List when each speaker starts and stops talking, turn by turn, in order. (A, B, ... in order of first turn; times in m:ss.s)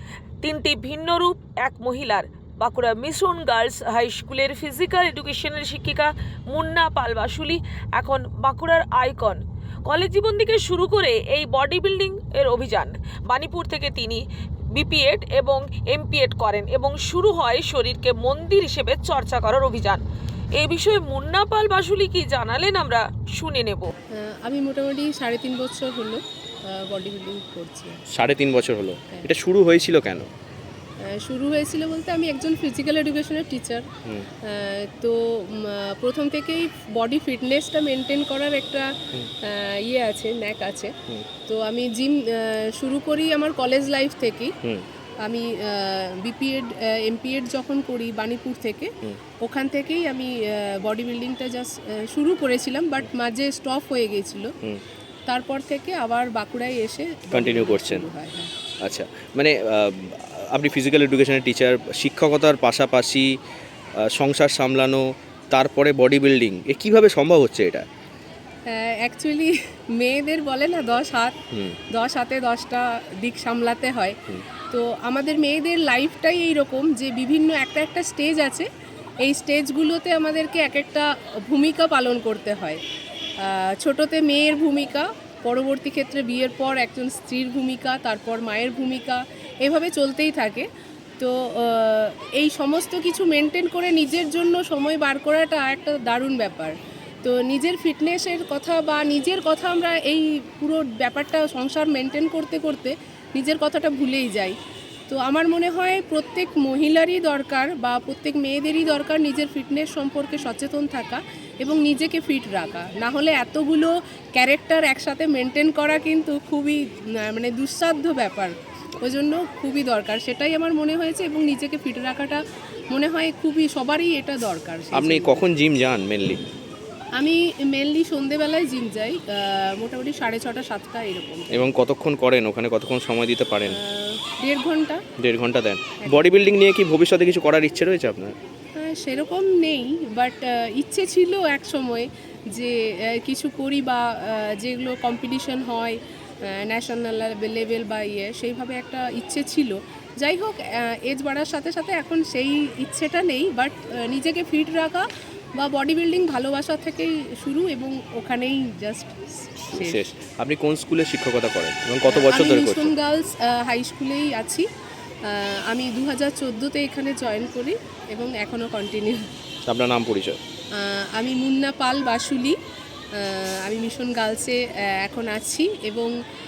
0:00.4-0:14.2 A
0:14.7-0:20.0 A
0:20.6-0:23.9 A
0:24.1-0:28.0 B
0:28.1-0:30.3 C
0:31.0-0:33.8 B
0:34.5-0:38.9 B
0:39.4-0:44.5 B
0:45.2-0:48.9 B
0:49.4-0:54.5 B
0:55.3-0:58.5 B
0:57.3-0:58.0 C
0:58.8-1:03.4 C
1:04.0-1:07.8 C
1:08.7-1:11.4 B
1:11.5-1:11.8 C
1:11.9-1:14.2 B
1:14.7-1:18.7 B
1:19.2-1:22.8 B
1:23.4-1:30.7 B
1:31.2-1:44.5 B
1:45.1-2:02.4 B
2:02.9-2:05.4 B
2:04.9-2:06.4 C
2:07.2-2:11.7 B
2:11.5-2:13.8 C
2:13.7-2:15.0 B
2:15.2-2:18.3 C
2:16.0-2:16.3 B
2:18.8-2:35.0 B
2:35.6-2:40.0 B
2:39.7-2:42.9 C
2:42.1-2:44.6 B
2:45.2-2:49.2 B
2:49.7-2:50.4 C
2:50.8-2:52.6 B
2:53.2-2:56.1 B